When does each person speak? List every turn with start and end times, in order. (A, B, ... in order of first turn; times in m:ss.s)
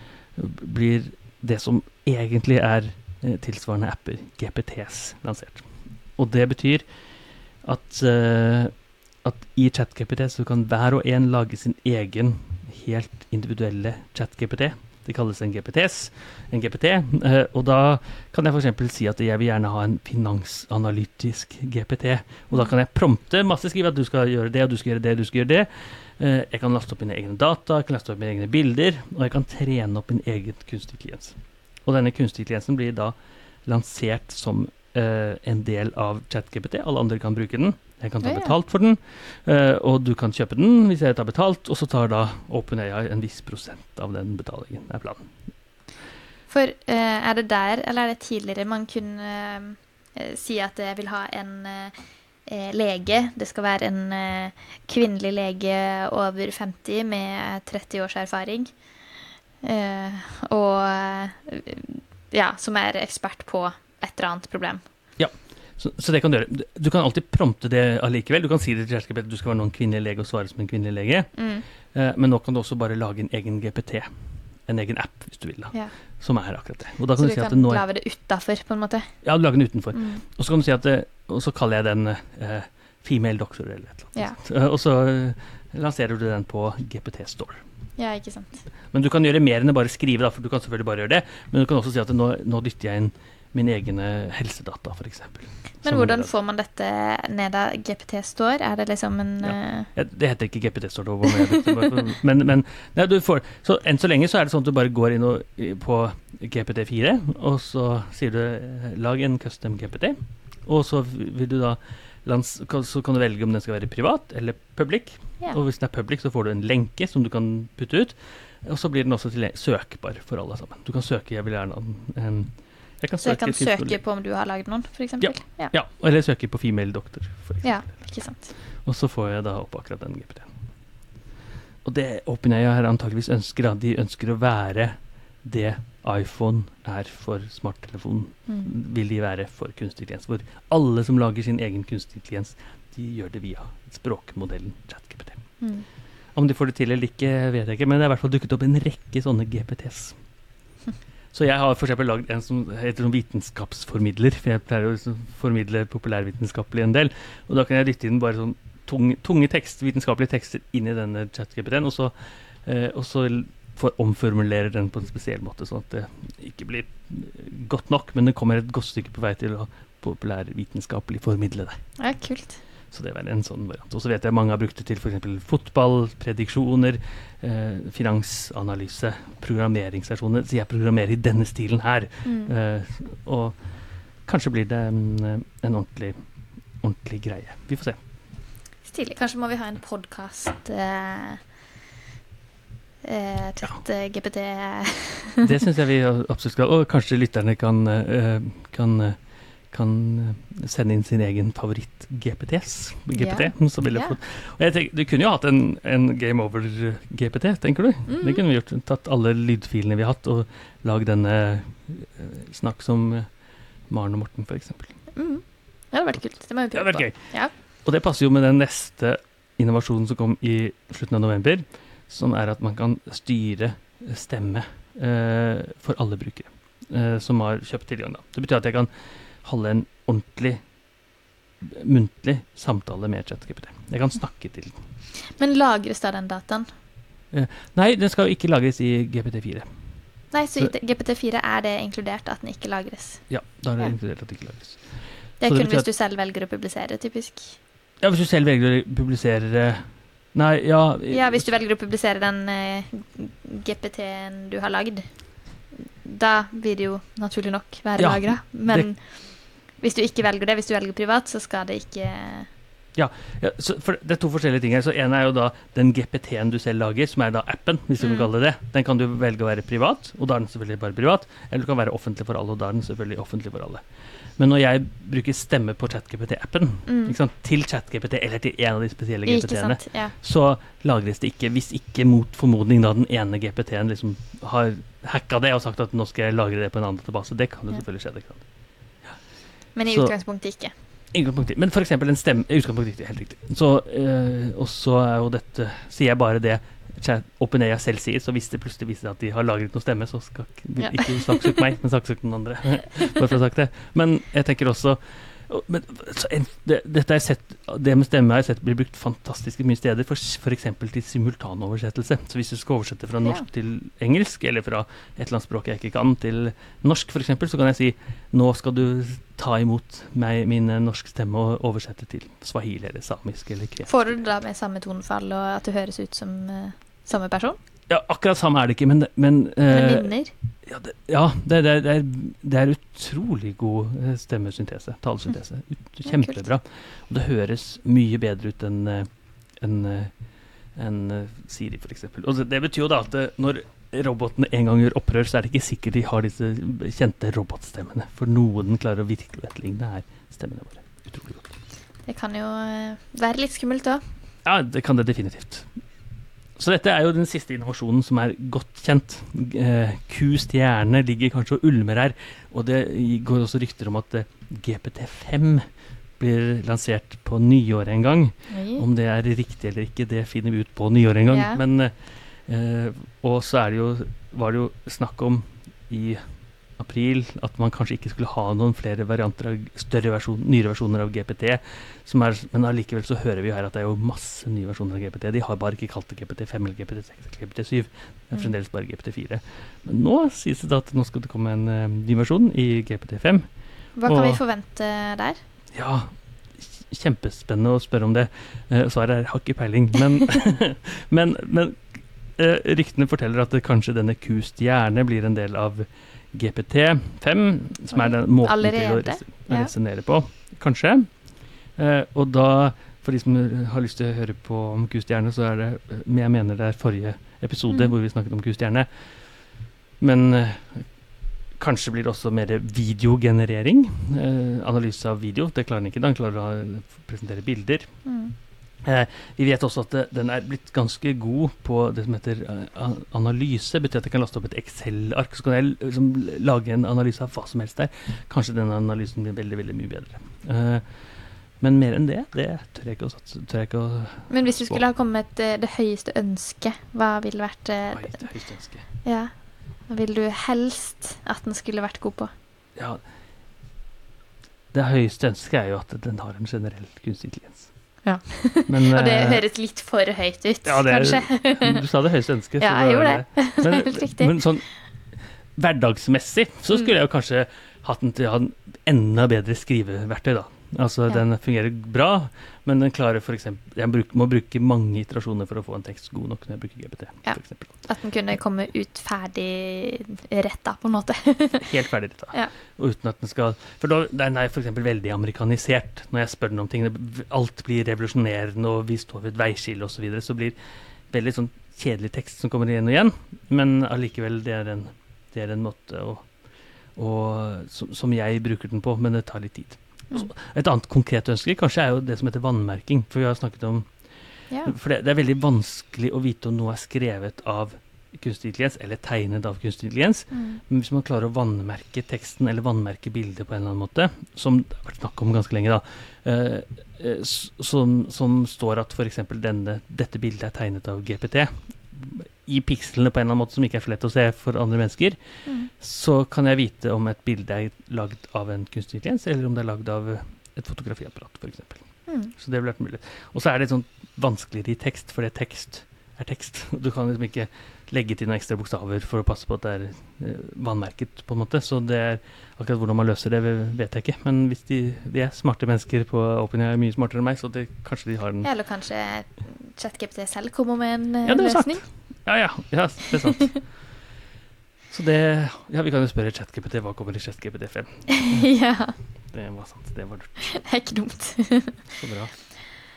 0:00.4-0:06.9 A
0:07.6-0:45.3 A
0:38.2-0:38.6 B
0:46.5-0:58.8 B
0:59.6-1:04.8 B
1:05.2-1:14.1 A
1:11.4-1:11.6 B
1:14.7-1:17.9 A
1:17.2-1:19.1 B
1:19.2-1:27.6 A
1:19.9-1:20.2 B
1:28.0-1:28.6 B
1:28.9-1:36.3 A
1:35.8-1:39.9 B
1:39.4-2:04.0 A
2:03.2-2:05.7 B
2:05.2-2:10.5 A
2:07.6-2:08.5 B
2:11.8-2:25.5 A
2:18.5-2:18.7 B
2:25.6-2:25.9 B
2:26.3-2:30.2 A
2:31.3-2:51.8 A
2:52.0-2:52.6 B
2:52.9-3:03.6 A
3:02.2-3:02.5 B
3:04.2-3:06.2 A
3:06.8-3:08.0 A
3:08.8-3:11.5 B
3:13.0-3:15.5 B
3:15.4-3:35.0 A
3:23.1-3:24.2 B
3:28.1-3:28.4 B
3:35.2-3:37.5 B
3:36.7-3:48.9 A
3:49.4-3:50.6 A
3:51.6-3:54.8 A
3:55.4-3:56.7 B
3:57.3-3:59.7 A
4:00.3-4:03.9 B
4:03.3-4:05.9 A
4:05.4-4:07.6 B
4:08.0-4:11.5 A
4:11.1-4:22.5 B
4:18.0-4:18.9 A
4:23.0-4:33.8 A
4:28.0-4:28.3 B
4:34.4-4:48.5 A
4:36.9-4:37.2 B
4:39.2-4:40.1 B
4:49.8-4:50.7 B
4:49.9-4:50.2 A
4:51.1-5:24.2 A
5:00.8-5:01.7 B
5:23.9-5:27.6 B
5:27.9-5:40.2 A
5:29.7-5:30.3 B
5:36.0-5:36.4 B
5:40.7-5:51.5 A
5:52.1-5:54.0 B
5:54.4-5:55.7 A
5:56.6-6:16.2 A
6:08.5-6:08.8 B
6:11.3-6:11.6 B
6:16.8-6:34.4 A
6:34.0-6:35.4 B
6:35.7-7:01.0 A
6:47.9-6:49.7 B
6:57.7-6:57.9 B
7:01.5-7:08.1 A
7:08.1-7:08.4 B
7:08.8-7:24.8 A
7:24.3-7:28.3 B
7:27.9-7:28.9 A
7:29.0-7:32.3 B
7:32.8-7:33.0 A
7:34.7-7:37.9 A
7:38.0-7:41.8 B
7:38.7-7:39.4 A
7:40.6-7:57.7 A
7:42.6-7:44.4 B
7:57.2-8:01.7 B
8:01.6-8:10.6 A
8:11.1-8:16.4 A
8:16.9-8:24.0 A
8:24.6-9:08.5 A
8:30.3-8:30.6 B
8:52.1-8:52.3 B
9:08.4-9:11.9 B
9:11.2-9:13.8 A
9:13.1-9:13.5 B
9:14.9-9:18.6 A
9:18.2-9:19.0 B
9:19.3-9:20.6 A
9:20.4-9:21.9 B
9:22.0-9:22.8 A